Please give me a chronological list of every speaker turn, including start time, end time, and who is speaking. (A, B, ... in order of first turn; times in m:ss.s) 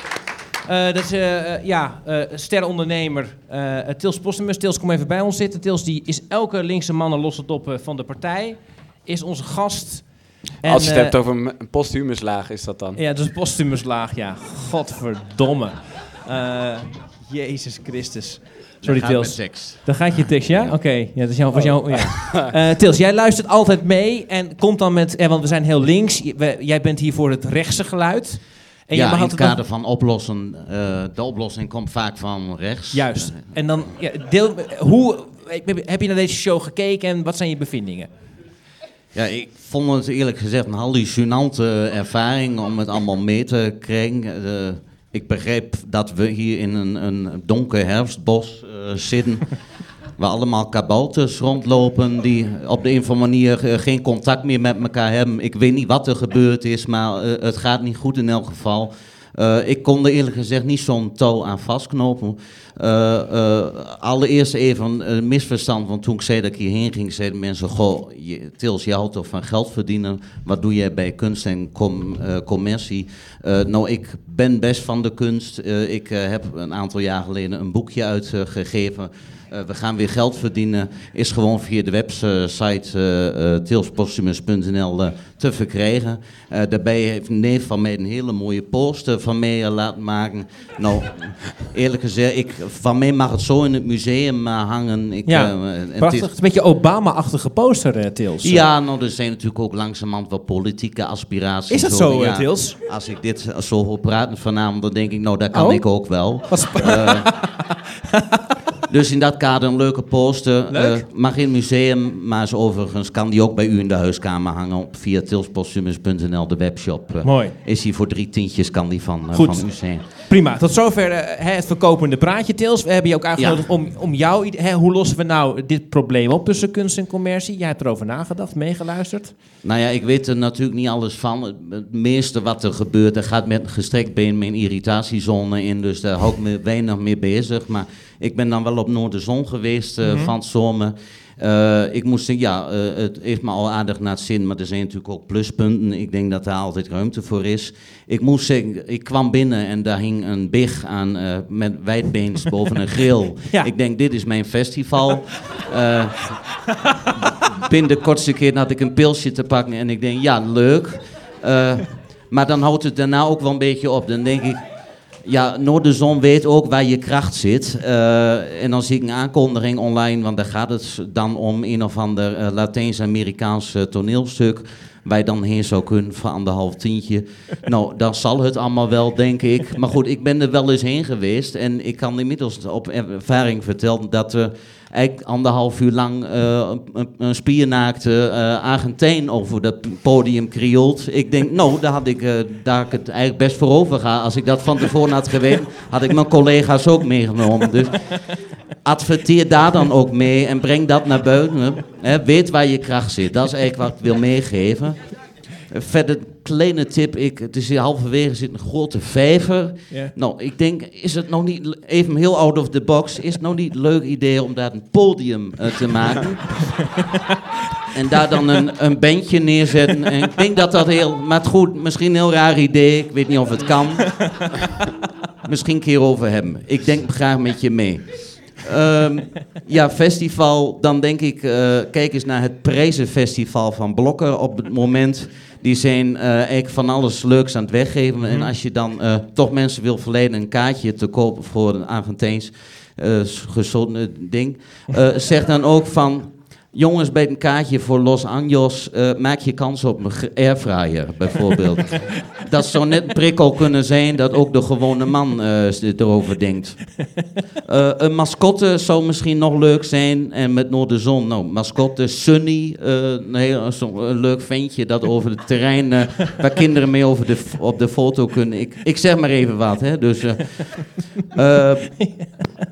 0:00.7-0:11.2 A
0:10.6-0:13.0 B
0:13.0-0:29.6 A
0:18.8-0:19.8 C
0:21.5-0:22.5 B
0:28.9-0:33.6 C
0:32.9-0:38.1 A
0:39.1-0:49.5 C
0:50.2-1:36.3 C
1:35.3-1:38.7 A
1:38.4-1:47.3 C
1:41.7-1:42.8 A
1:45.5-1:47.7 A
1:48.9-2:00.1 C
1:50.7-1:51.0 A
1:57.2-1:57.6 A
1:59.3-2:09.4 A
2:03.4-2:03.7 C
2:09.6-2:36.1 C
2:20.0-2:20.3 A
2:37.6-2:44.6 C
2:45.2-3:18.0 C
3:18.8-3:25.1 C
3:25.7-3:36.6 C
3:37.9-3:44.1 C
3:45.4-4:16.8 C
3:58.2-3:58.5 A
4:17.7-4:30.8 C
4:31.3-4:31.9 C
4:32.0-4:32.4 A